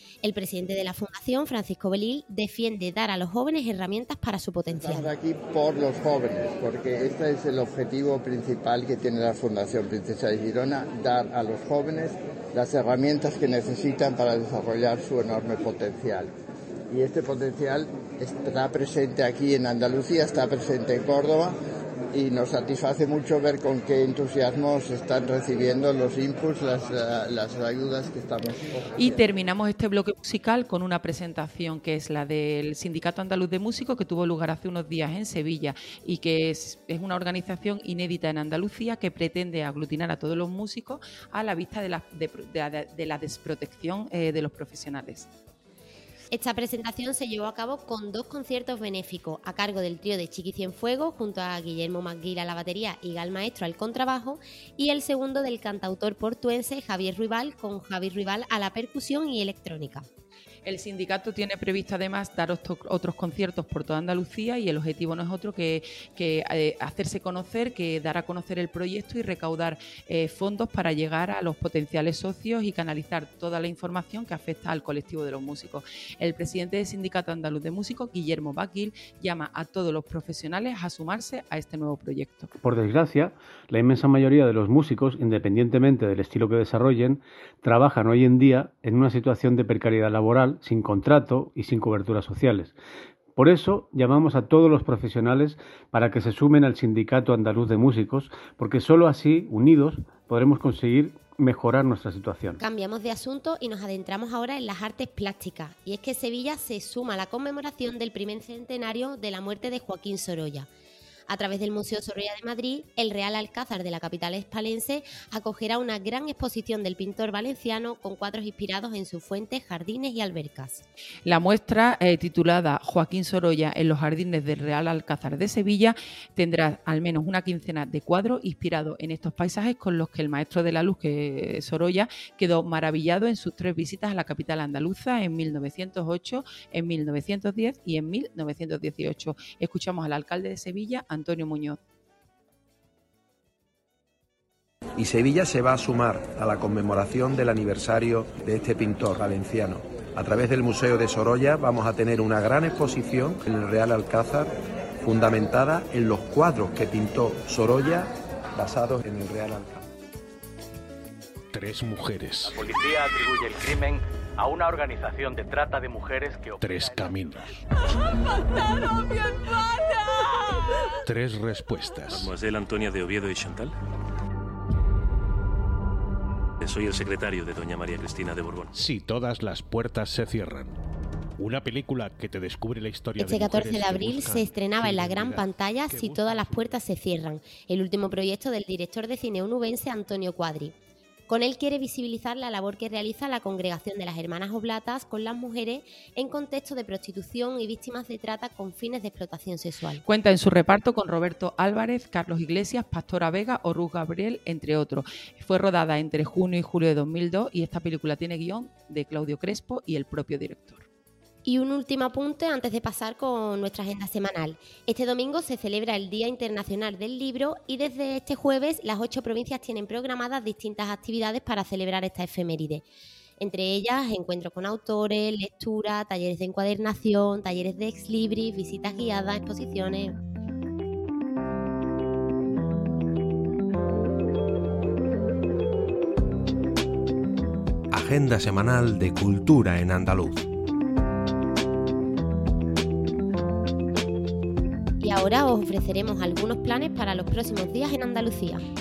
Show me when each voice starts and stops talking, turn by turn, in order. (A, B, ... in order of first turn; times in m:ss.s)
0:00.2-0:05.1 A
0:04.8-0:16.3 B
0:16.9-0:21.6 B
0:22.1-0:29.2 B
0:29.0-0:45.3 C
0:46.3-1:00.1 A
1:00.6-1:22.5 C
1:22.6-1:32.8 D
1:33.4-1:42.6 D
1:42.6-1:50.7 A
1:51.3-2:00.8 A
2:01.3-2:21.8 C
2:25.0-2:39.8 E
2:41.5-2:42.5 F
2:42.6-2:47.1 G
2:46.6-2:47.2 H
2:46.6-2:47.4 F
2:51.1-2:52.3 F
2:52.1-2:53.7 I
2:56.6-2:58.7 I
2:58.8-3:00.7 F
3:01.4-3:06.7 F
3:03.2-3:10.7 A
3:11.3-3:20.0 A
3:20.0-3:30.8 C
3:31.4-3:42.9 A
3:43.4-3:50.2 A
3:57.9-4:00.4 H
4:05.0-4:08.6 A